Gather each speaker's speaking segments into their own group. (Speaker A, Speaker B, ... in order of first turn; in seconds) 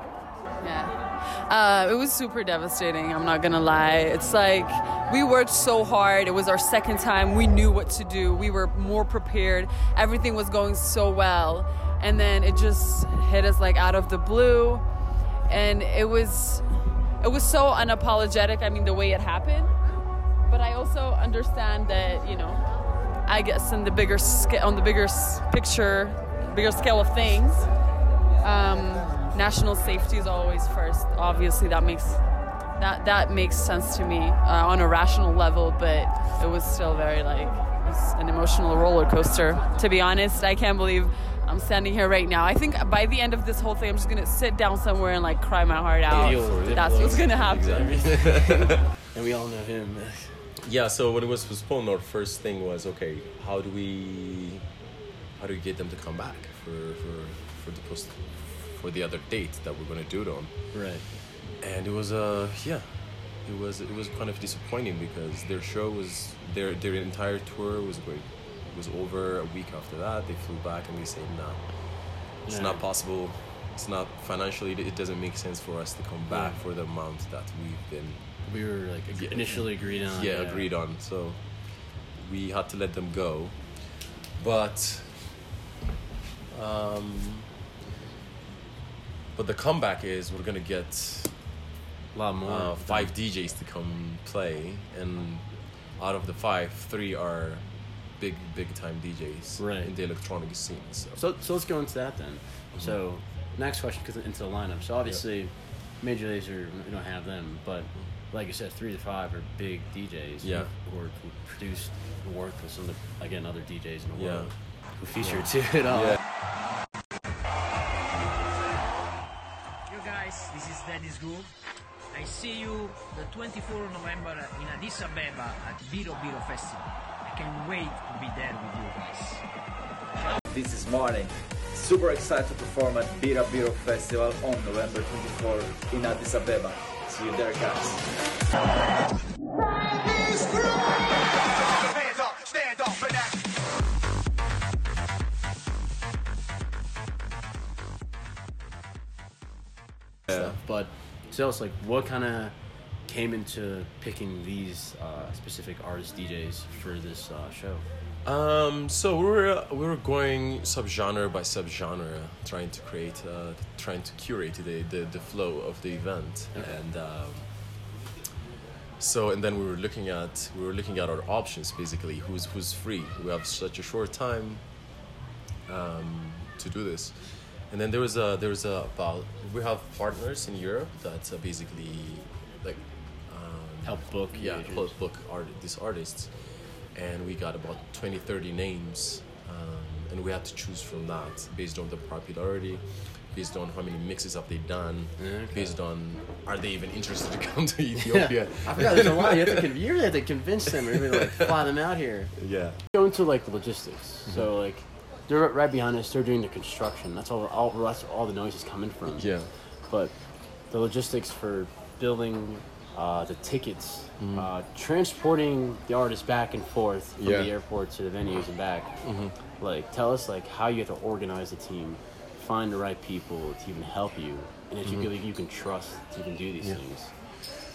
Speaker A: 0.6-14.8, 15.5-16.6, 17.2-19.7, 20.5-22.6, 23.3-27.7, 28.4-32.2, 32.8-48.2
Speaker B: 46.1-48.9, 50.6-54.6, 55.4-60.8, 61.6-78.4, 79.1-85.4, 86.5-87.5, 89.3-91.4, 92.4-101.2, 110.4-110.7, 114.2-116.2, 150.3-150.6, 158.2-167.9, 169.0-174.9, 175.7-199.7, 202.4-202.8, 209.1-209.5, 214.2-214.5, 217.2-217.5, 219.0-219.3, 224.8-225.1
Speaker C: 46.1-50.4, 60.7-61.0, 72.5-72.8, 76.3-76.6, 78.4-80.7, 92.1-93.1, 99.6-99.9, 101.2-116.2, 150.3-152.6, 153.1-157.9, 183.8-185.0, 195.2-195.7, 198.0-202.4, 202.9-209.3, 209.9-210.2, 210.7-218.9, 219.6-227.1
Speaker D: 119.9-121.5, 122.1-129.4
Speaker E: 130.4-138.1